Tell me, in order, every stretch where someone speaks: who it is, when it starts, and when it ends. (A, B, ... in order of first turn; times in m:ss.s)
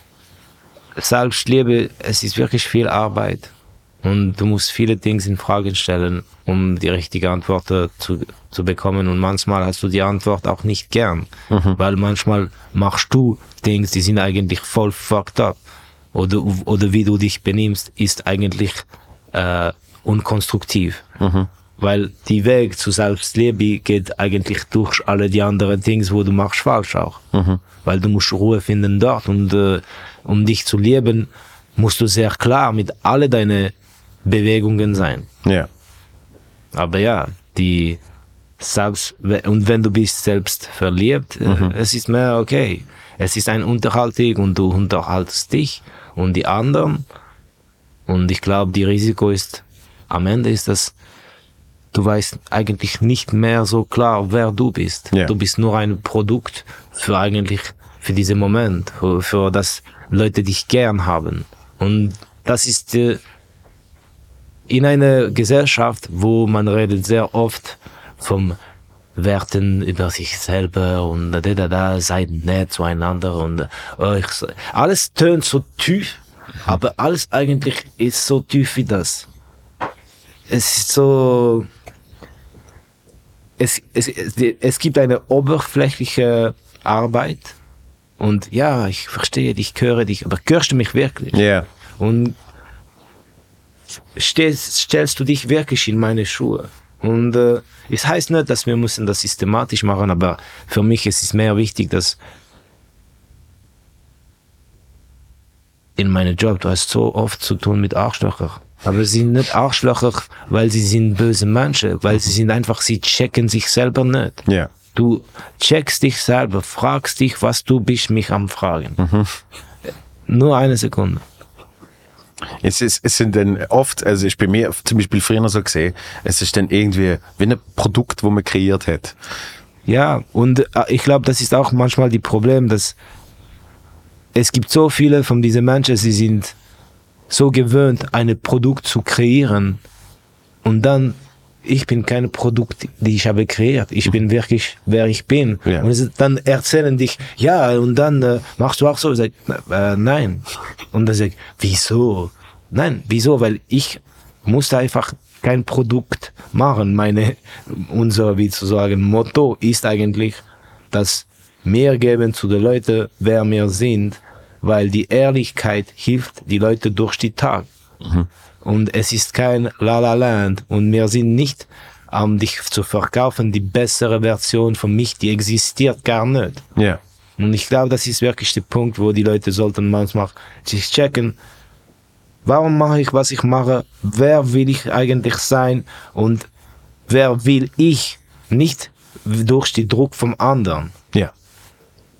0:01.0-0:03.5 A
0:04.0-0:15.6 A
0:11.5-0:11.8 B
0:16.1-0:21.0 A
0:21.2-0:21.5 B
0:21.8-0:27.2 A
0:27.3-0:27.6 B
0:27.8-0:33.7 A
0:34.2-0:35.3 A
0:35.4-0:35.7 B
0:36.7-0:38.0 A
0:38.6-0:47.0 A
0:41.4-0:41.7 B
0:48.1-0:50.9 A
0:51.9-1:03.2 A
1:04.7-1:08.6 A
1:09.2-1:19.3 A
1:20.5-1:21.7 A
1:23.6-1:27.5 A
1:28.2-1:31.4 A
1:31.3-1:31.7 B
1:32.0-1:32.4 A
1:34.2-1:42.2 A
1:46.0-1:59.0 A
1:59.0-1:59.3 B
2:00.3-2:01.2 A
2:02.6-2:09.2 B
2:09.8-2:12.9 A
2:14.3-2:16.5 A
2:17.3-2:19.8 A
2:20.6-2:47.7 A
2:48.0-2:48.3 B
2:48.6-2:56.6 A
2:57.4-3:01.4 A
3:02.4-3:06.5 A
3:07.1-3:10.9 A